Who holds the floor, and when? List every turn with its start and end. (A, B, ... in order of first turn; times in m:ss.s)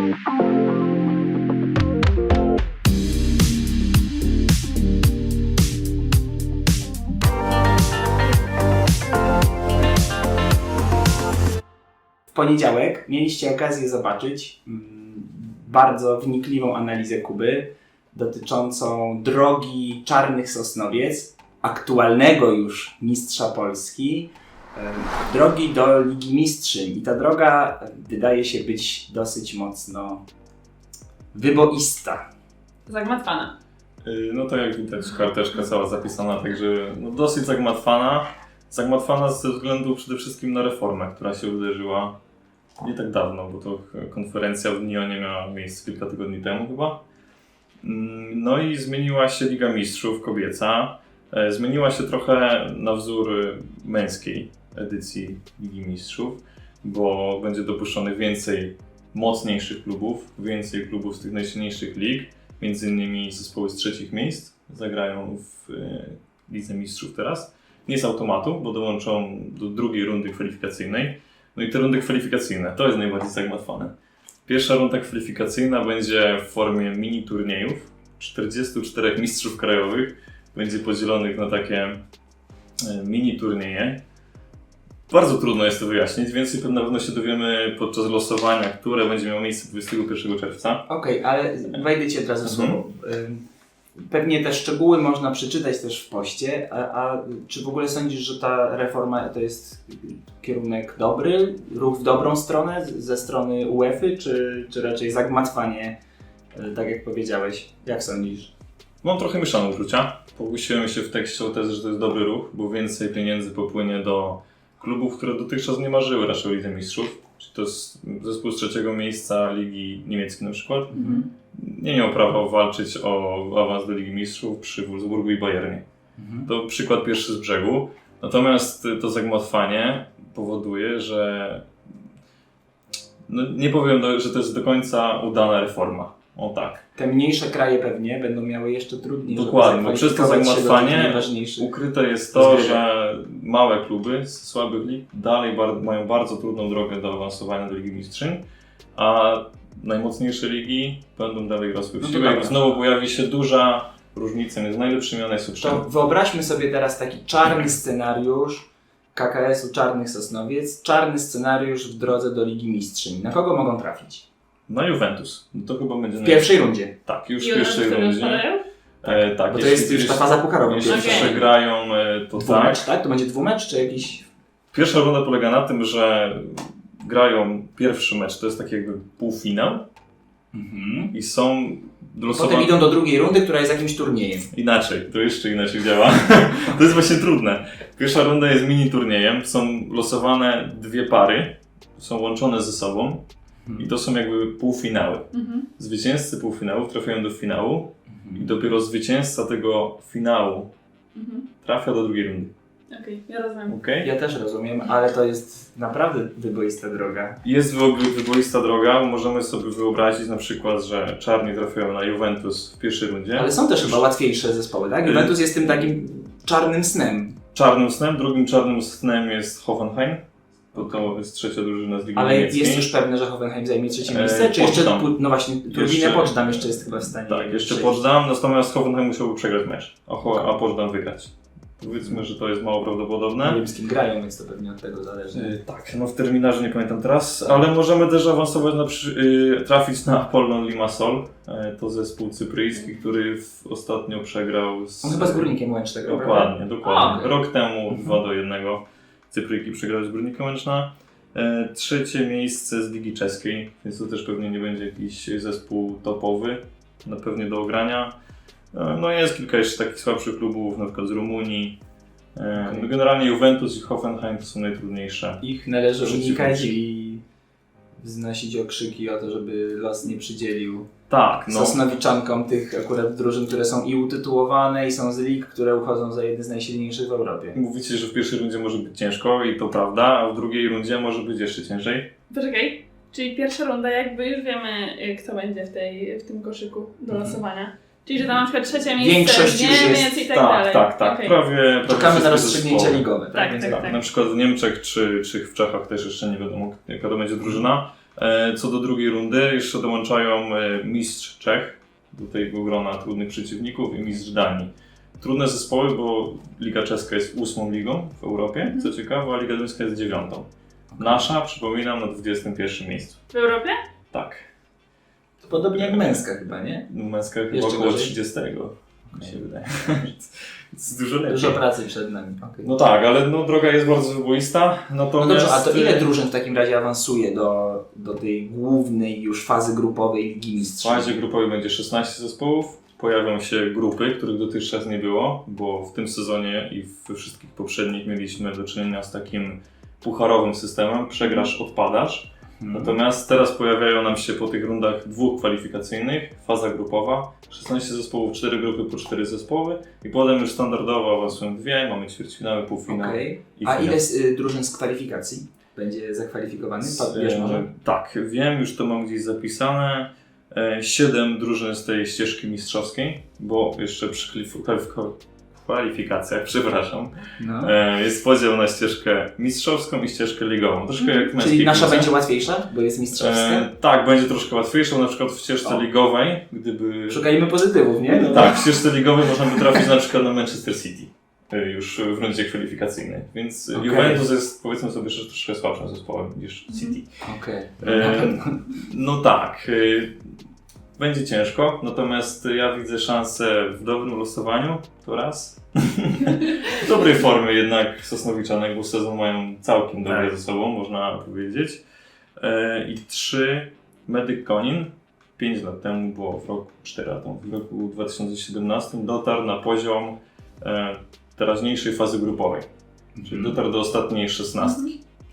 0:12.3-0:30.2 A
0:31.3-0:32.2 A
0:32.9-0:33.5 B
0:34.0-0:42.2 C
0:42.8-0:47.0 C
0:47.8-1:13.9 C
1:14.5-1:22.0 C
1:22.8-1:24.0 C
1:25.1-1:30.8 C
1:30.9-1:33.4 A
1:32.4-1:32.8 C
1:34.0-1:46.0 A
1:46.6-1:48.5 A
1:49.0-2:05.8 C
2:00.9-2:01.3 A
2:00.9-2:01.3 B
2:06.2-2:06.5 A
2:06.5-2:11.7 C
2:13.3-2:16.8 C
2:17.0-2:21.7 A
2:19.3-2:28.4 C
2:22.3-2:22.8 A
2:29.0-2:35.8 C
2:32.0-2:32.6 A
2:35.6-2:44.2 A
2:44.7-2:46.5 C
2:46.2-2:47.0 A
2:47.0-2:48.5 C
2:47.4-2:48.6 B
2:49.0-2:52.8 C
2:49.0-2:51.4 A
2:50.9-2:51.4 B
2:52.4-2:54.3 A
2:54.7-2:59.8 C
3:00.5-3:01.1 A
3:01.1-3:02.9 C
3:02.3-3:04.5 A
3:04.5-3:13.2 C
3:13.6-3:13.9 A
3:13.8-3:20.7 C
3:15.3-3:15.7 B
3:18.1-3:18.5 A
3:21.2-3:21.5 B
3:21.6-3:22.5 C
3:22.9-3:23.8 B
3:23.7-3:24.1 C
3:24.0-3:27.4 A
3:27.4-3:34.0 C
3:33.4-3:37.4 A
3:35.0-3:35.9 C
3:37.5-3:42.9 C
3:40.8-3:41.1 A
3:42.2-3:48.0 A
3:44.0-3:45.1 C
3:45.7-3:53.6 C
3:50.2-3:50.5 A
3:51.9-3:52.3 A
3:53.4-3:55.6 A
3:55.3-4:05.5 C
4:05.0-4:07.2 A
4:06.1-4:18.1 C
4:06.8-4:07.3 B
4:07.9-4:08.2 A
4:18.7-4:21.8 C
4:22.4-4:25.4 C
4:22.6-4:22.9 A
4:25.4-4:27.2 A
4:26.0-4:26.8 C
4:28.0-4:30.9 A
4:31.1-4:31.8 C
4:31.5-4:37.6 A
4:37.6-4:42.1 C
4:42.3-4:51.4 B
4:47.1-4:47.4 A
4:49.0-4:50.1 A
4:49.9-5:10.5 C
4:51.9-4:53.9 A
4:53.3-4:54.0 B
5:08.6-5:08.9 B
5:10.9-5:11.3 A
5:11.0-5:13.2 C
5:13.3-5:13.8 B
5:14.1-5:14.5 C
5:15.4-5:16.9 A
5:15.7-5:16.3 C
5:16.9-5:21.6 C
5:17.5-5:18.2 A
5:19.1-5:19.4 A
5:21.3-5:22.7 A
5:22.6-5:26.1 C
5:25.2-5:31.2 A
5:30.8-5:54.0 C
5:41.2-5:41.5 B
5:42.6-5:43.0 A
5:52.9-5:57.7 A
5:56.8-6:12.1 C
6:07.4-6:07.7 A
6:11.0-6:11.3 B
6:11.4-6:13.7 A
6:13.1-6:17.3 C
6:17.1-6:18.7 A
6:18.1-6:27.2 C
6:23.7-6:24.3 A
6:26.7-6:27.0 B
6:27.2-6:28.7 A
6:27.8-6:30.3 C
6:31.0-6:41.8 C
6:40.0-6:40.3 A
6:42.4-6:52.7 C
6:53.2-6:53.6 A
6:53.2-6:55.0 C
6:54.6-6:54.9 B